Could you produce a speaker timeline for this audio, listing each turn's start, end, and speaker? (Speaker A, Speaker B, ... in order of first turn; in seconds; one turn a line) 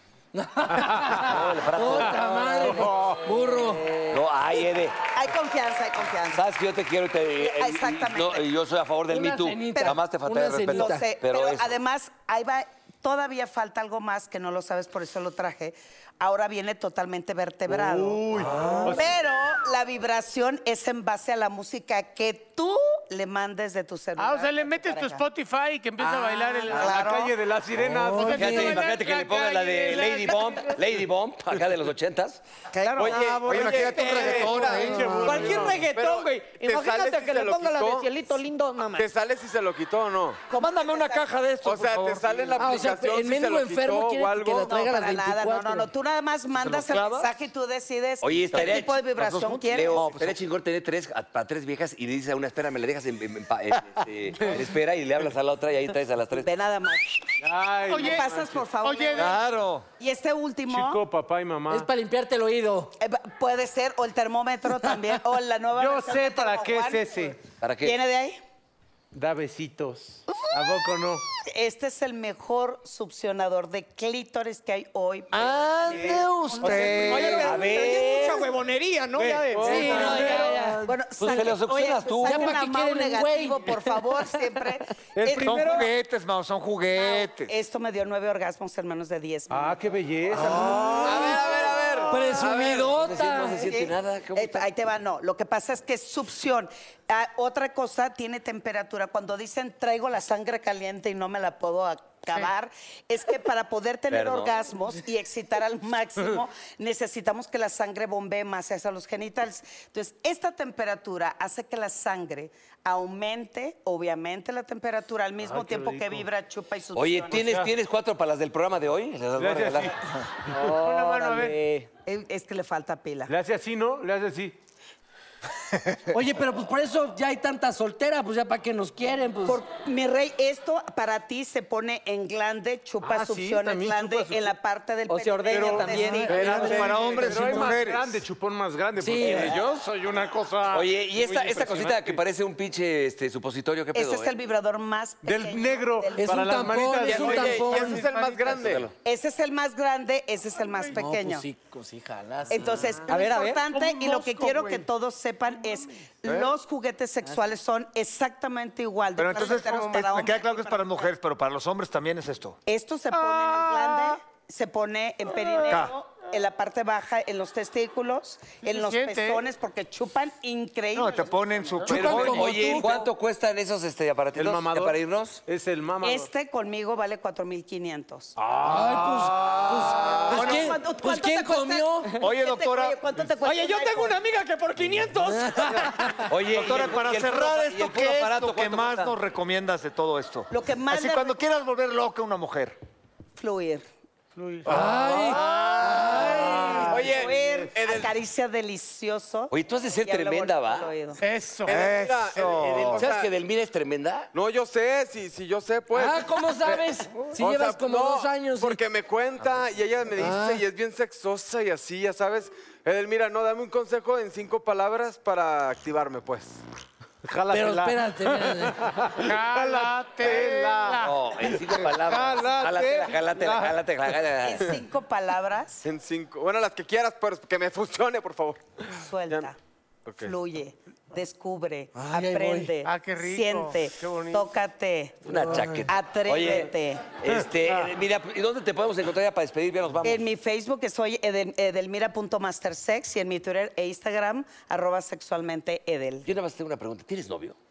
Speaker A: 0.3-4.2
Speaker B: 0.8-1.2
Speaker C: 1.0-2.7
Speaker B: 2.6-3.5
Speaker C: 4.1-5.0
Speaker D: 4.5-6.4
Speaker C: 6.3-11.8
Speaker D: 7.4-8.5
Speaker A: 9.1-11.1
Speaker D: 9.7-10.0
Speaker D: 10.7-25.2
Speaker B: 17.7-19.2
Speaker E: 24.2-27.3
Speaker D: 26.0-27.3
Speaker B: 26.6-28.8
Speaker A: 27.9-28.2
Speaker E: 28.2-30.8
Speaker C: 28.3-32.4
Speaker D: 32.7-33.9
Speaker F: 33.0-35.1
Speaker G: 33.0-35.3
Speaker H: 33.9-34.5
Speaker B: 34.3-35.9
Speaker H: 35.2-39.1
Speaker F: 35.8-38.1
Speaker F: 39.0-40.4
Speaker D: 40.5-41.4
Speaker G: 40.5-42.2
Speaker F: 41.6-44.8
Speaker A: 42.5-45.9
Speaker D: 44.6-50.1
Speaker B: 46.6-47.1
Speaker C: 48.2-56.5
Speaker G: 49.2-50.4
Speaker B: 54.4-54.7
Speaker D: 56.4-57.3
Speaker B: 57.4-58.6
Speaker D: 57.9-59.4
Speaker E: 57.9-59.4
Speaker G: 59.1-59.9
Speaker D: 60.0-61.0
Speaker B: 60.7-61.9
Speaker A: 61.7-62.9
Speaker D: 63.0-68.4
Speaker B: 65.7-67.4
Speaker C: 67.6-68.0
Speaker B: 69.1-71.2
Speaker D: 70.3-70.8
Speaker D: 71.4-78.2
Speaker B: 75.3-75.7
Speaker G: 75.3-77.5
Speaker H: 76.6-80.5
Speaker C: 77.3-78.5
Speaker D: 79.3-85.9
Speaker F: 79.5-80.2
Speaker A: 79.5-81.0
Speaker B: 79.8-80.8
Speaker C: 81.2-82.6
Speaker A: 82.2-84.5
Speaker B: 85.1-85.8
Speaker G: 85.4-87.5
Speaker D: 86.9-89.8
Speaker B: 89.5-91.2
Speaker A: 90.3-93.8
Speaker F: 91.0-93.0
Speaker C: 92.7-94.6
Speaker D: 93.6-117.7
Speaker C: 104.1-104.5
Speaker B: 115.4-116.3
Speaker C: 116.9-120.0
Speaker B: 117.3-117.7
Speaker B: 119.3-120.0
Speaker H: 120.5-121.9
Speaker E: 120.6-121.5
Speaker D: 122.0-123.3
Speaker B: 123.3-124.6
Speaker A: 126.1-129.6
Speaker D: 129.4-136.8
Speaker B: 133.0-134.5
Speaker H: 135.1-136.8
Speaker B: 135.5-142.2
Speaker G: 136.3-138.2
Speaker F: 136.7-137.6
Speaker A: 138.9-139.6
Speaker C: 140.7-144.3
Speaker D: 143.9-146.9
Speaker B: 145.2-148.0
Speaker A: 146.1-148.0
Speaker F: 147.1-148.9
Speaker E: 147.2-148.7
Speaker C: 148.4-148.9
Speaker D: 149.0-151.5
Speaker A: 150.9-153.1
Speaker D: 152.5-161.1
Speaker H: 153.1-153.6
Speaker E: 153.6-154.9
Speaker F: 156.2-156.5
Speaker G: 159.2-162.6
Speaker E: 159.4-159.9
Speaker D: 162.7-171.4
Speaker G: 163.2-164.0
Speaker G: 165.7-165.9
Speaker E: 168.6-169.4
Speaker G: 170.9-172.6
Speaker A: 171.8-173.1
Speaker C: 171.9-175.4
Speaker B: 172.2-172.6
Speaker B: 174.3-176.3
Speaker D: 176.0-178.3
Speaker B: 178.4-180.6
Speaker A: 178.6-182.2
Speaker D: 180.2-184.2
Speaker G: 180.3-180.8
Speaker G: 182.2-183.0
Speaker H: 183.4-186.1
Speaker A: 185.2-186.3
Speaker C: 186.3-189.2
Speaker G: 186.5-192.8
Speaker D: 190.5-191.4
Speaker D: 193.4-193.9
Speaker E: 194.3-194.9
Speaker A: 194.7-197.2
Speaker B: 194.7-195.4
Speaker D: 195.3-201.2
Speaker F: 195.6-196.1
Speaker F: 196.7-198.1
Speaker C: 199.5-200.9
Speaker E: 201.2-201.8
Speaker F: 201.6-203.3
Speaker G: 201.7-203.1
Speaker C: 202.9-204.3
Speaker F: 204.3-216.6
Speaker A: 205.9-208.8
Speaker A: 210.2-210.6
Speaker B: 217.2-224.7
Speaker A: 217.5-218.9
Speaker E: 219.2-221.2
Speaker C: 221.0-224.8
Speaker D: 224.4-225.8
Speaker F: 225.8-229.5
Speaker D: 228.9-229.6
Speaker F: 230.0-230.3
Speaker D: 230.2-237.1
Speaker A: 231.9-232.8
Speaker E: 232.8-234.5
Speaker C: 235.2-240.2
Speaker A: 235.4-235.8
Speaker B: 237.4-237.8
Speaker D: 240.0-246.3
Speaker C: 246.2-247.6